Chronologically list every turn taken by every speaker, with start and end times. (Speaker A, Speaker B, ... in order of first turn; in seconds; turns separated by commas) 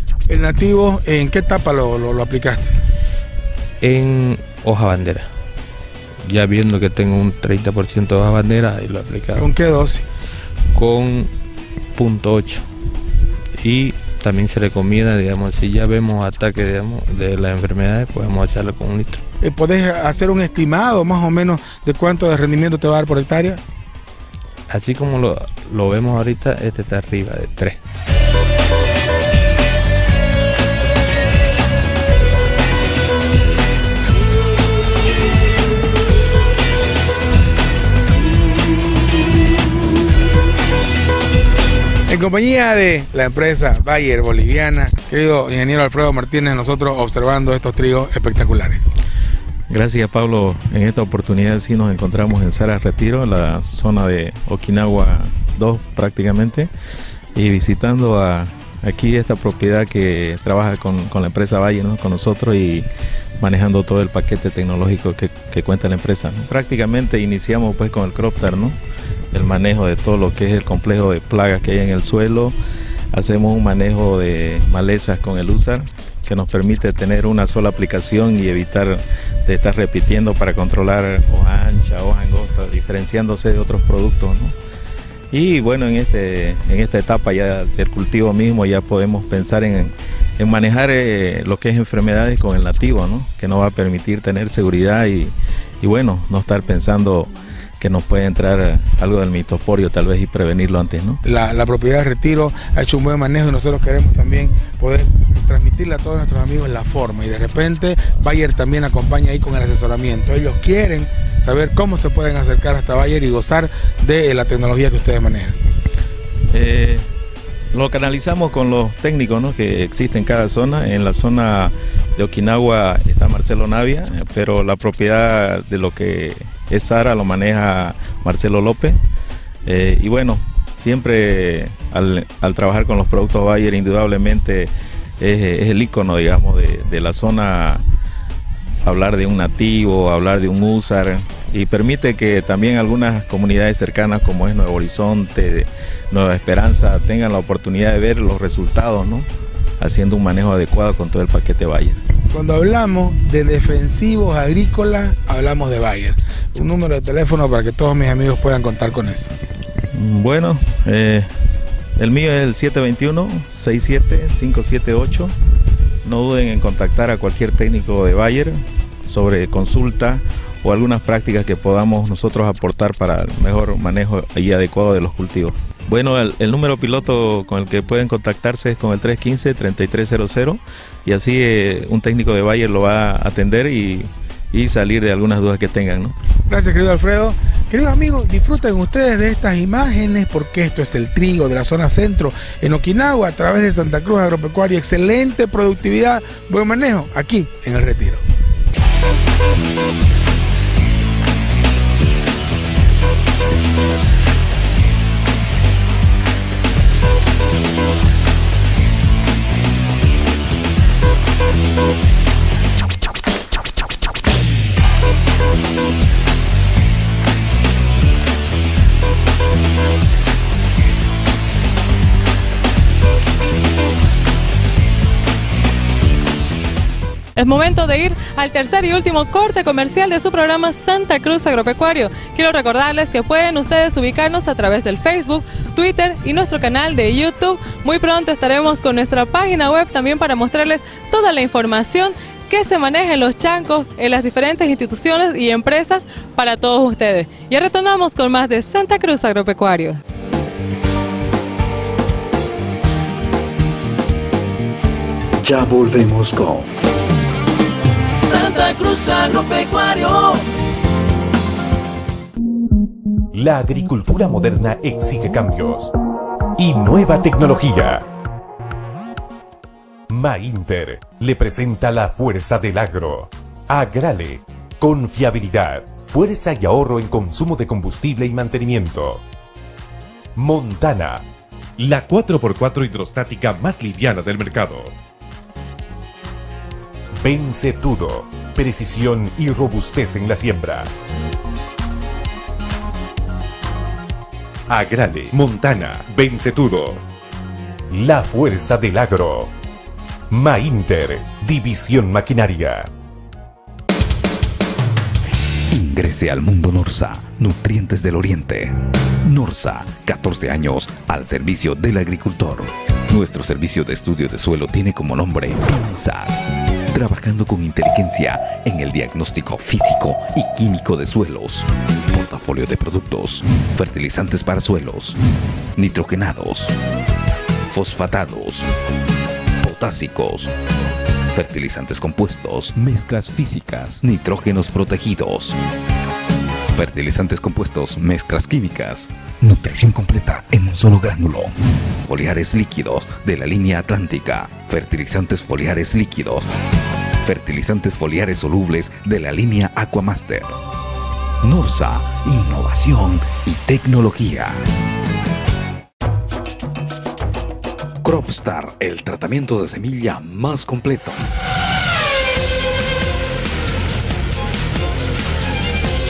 Speaker A: 0.3-2.7, Speaker B: 3.8-5.3, Speaker B: 6.2-9.5, Speaker A: 9.3-10.0, Speaker B: 10.7-11.3, Speaker B: 11.9-12.7, Speaker B: 13.6-19.2, Speaker A: 19.4-23.6, Speaker B: 24.7-27.8, Speaker A: 42.1-48.8, Speaker C: 49.7-56.7, Speaker C: 57.4-62.9, Speaker C: 63.4-68.8, Speaker C: 69.3-72.5, Speaker C: 73.1-84.5, Speaker C: 85.3-101.2, Speaker A: 101.2-115.6, Speaker C: 116.5-117.0, Speaker C: 117.7-129.0, Speaker C: 129.7-137.8, Speaker C: 138.8-149.3, Speaker C: 149.8-152.0, Speaker A: 152.3-159.3, Speaker C: 159.9-161.3, Speaker C: 162.0-165.3, Speaker C: 166.0-186.1, Speaker A: 186.5-198.2, Speaker D: 227.3-250.0, Speaker E: 255.4-256.7, Speaker D: 258.2-260.4, Speaker F: 263.3-265.9, Speaker F: 266.6-268.1, Speaker F: 270.1-279.2, Speaker F: 280.4-281.2, Speaker F: 281.8-284.9, Speaker F: 287.2-290.9, Speaker F: 294.7-297.0, Speaker F: 297.9-299.5, Speaker F: 300.3-302.9, Speaker E: 305.7-316.4, Speaker E: 316.9-325.2, Speaker E: 325.8-326.7, Speaker E: 327.7-328.7, Speaker E: 329.6-330.5, Speaker E: 331.3-335.6, Speaker E: 336.7-346.5, Speaker E: 347.2-350.6, Speaker E: 351.4-354.6, Speaker E: 358.0-361.3